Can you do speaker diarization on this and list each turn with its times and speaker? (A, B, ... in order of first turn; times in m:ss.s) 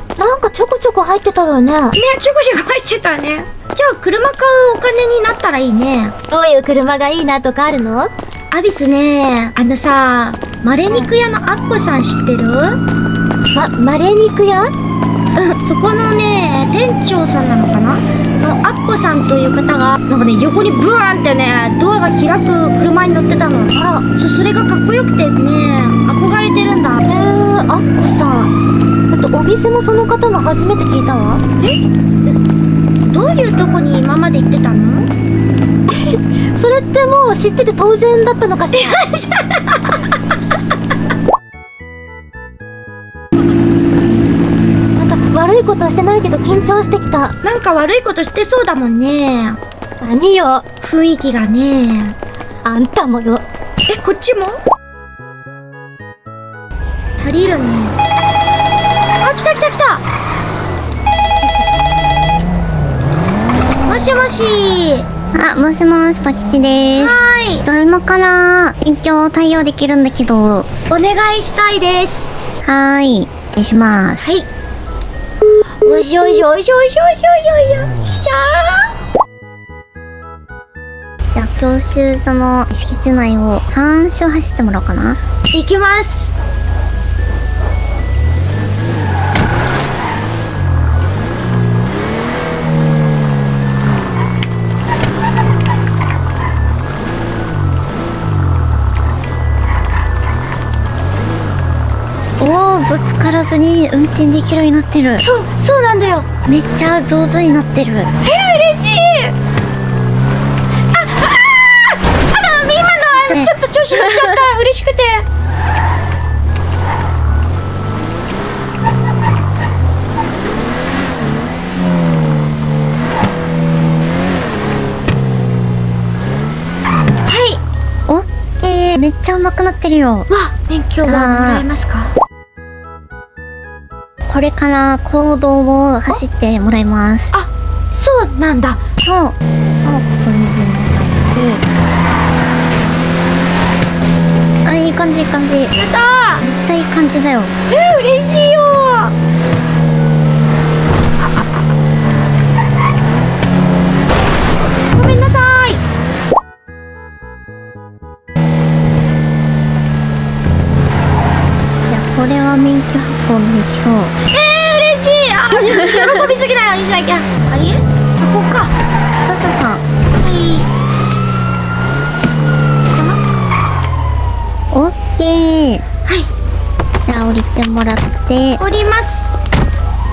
0:00.2-0:02.0 A
0:01.9-0:06.1 B
0:06.3-0:08.1 A
0:08.5-0:12.8 B
0:13.5-0:14.7 A
0:15.4-0:27.0 B
0:23.7-0:24.0 A
0:27.0-0:28.5 A
0:29.1-0:31.4 A
0:33.0-0:35.1 B
0:35.9-0:39.0 A
0:38.7-0:39.8 B
0:45.0-0:47.3 A
0:47.4-0:49.6 B
0:50.0-0:50.6 A
0:50.8-0:52.2 B
0:52.6-0:53.4 A
0:53.8-0:54.6 B
0:57.2-0:57.9 B
0:59.2-1:00.0 B
1:03.8-1:05.1 B
1:05.3-1:10.7 C
1:07.0-1:07.6 B
1:10.9-1:12.3 B
1:12.6-1:14.3 C
1:15.8-1:18.9 B
1:21.4-1:25.2 C
1:25.5-1:26.3 B
1:42.4-1:45.2 C
1:45.2-1:46.2 B
1:46.4-1:48.1 C
1:48.2-1:49.3 B
1:50.9-1:55.2 B
1:53.2-1:54.4 C
2:07.3-2:07.6 B
2:08.1-2:10.3 C
2:10.3-2:12.1 B
2:11.0-2:11.6 C
2:14.3-2:17.3 C
2:17.3-2:18.8 B
2:19.0-2:21.6 C
2:24.6-2:25.8 C
2:25.7-2:26.4 B
2:26.4-2:27.5 C
2:27.7-2:29.1 B
2:31.2-2:31.5 B
2:34.9-2:35.8 B
2:41.9-2:44.1 C
2:44.3-2:48.7 B
2:49.2-2:49.8 C
2:50.1-2:50.7 B
2:52.9-2:53.2 B
2:54.7-2:55.8 C
2:57.1-2:58.6 C
2:58.6-2:59.4 B